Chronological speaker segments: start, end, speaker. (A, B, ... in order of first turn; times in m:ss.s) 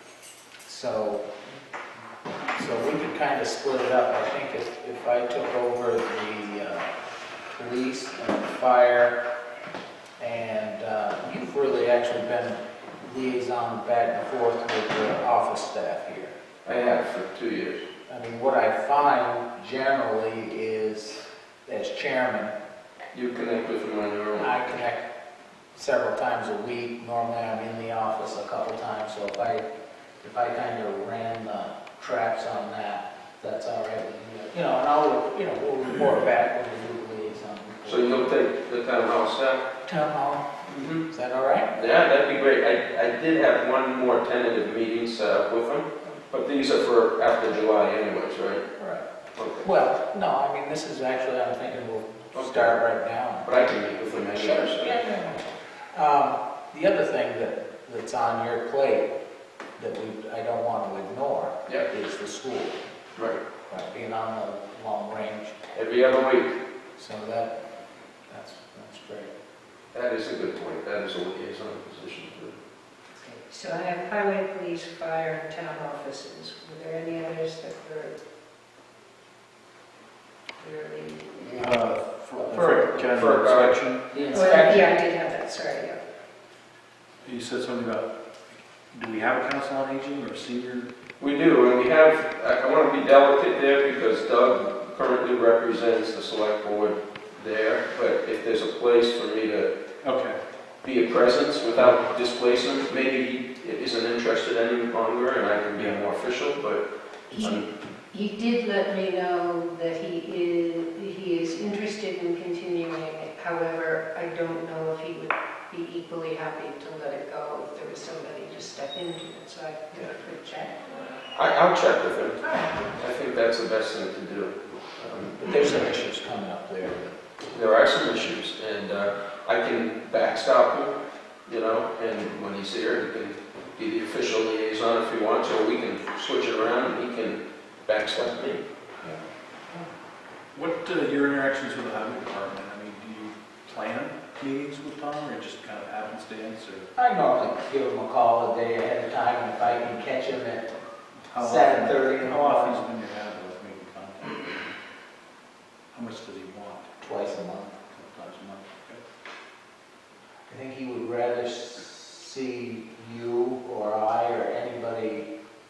0:00.6-0:01.3 A
0:02.5-0:06.9 A
0:07.5-0:09.2 A
0:10.2-0:16.3 A
0:16.6-0:17.8 B
0:18.1-0:22.5 A
0:23.1-0:24.5 B
0:24.4-0:25.1 A
0:25.7-0:29.6 A
0:30.2-0:38.3 A
0:37.8-0:39.6 B
0:39.8-0:40.5 A
0:40.7-0:41.0 B
0:41.1-0:41.7 A
0:41.7-0:48.6 B
0:48.8-0:49.0 A
0:49.3-0:49.7 B
0:49.6-0:53.5 A
0:52.3-0:52.8 B
0:53.4-0:55.0 B
0:54.4-0:59.1 A
0:59.8-1:02.8 A
1:03.2-1:03.4 B
1:03.7-1:05.6 A
1:05.7-1:06.6 B
1:07.0-1:07.5 A
1:08.3-1:09.3 A
1:09.9-1:12.6 B
1:13.2-1:18.2 C
1:20.6-1:21.6 C
1:21.6-1:24.1 D
1:22.4-1:23.0 A
1:23.0-1:23.8 B
1:24.1-1:24.9 A
1:24.3-1:26.0 C
1:27.2-1:28.1 D
1:28.9-1:30.9 D
1:31.2-1:39.7 B
1:40.0-1:40.4 D
1:40.8-1:47.7 B
1:47.3-2:00.8 C
2:01.3-2:05.6 B
2:02.4-2:02.9 C
2:05.4-2:07.2 A
2:07.5-2:18.6 B
2:20.5-2:26.9 D
2:27.0-2:30.7 A
2:31.3-2:34.7 D
2:31.4-2:32.8 A
2:35.9-2:36.9 D
2:37.0-2:37.9 A
2:37.9-2:39.0 D
2:40.5-2:45.3 A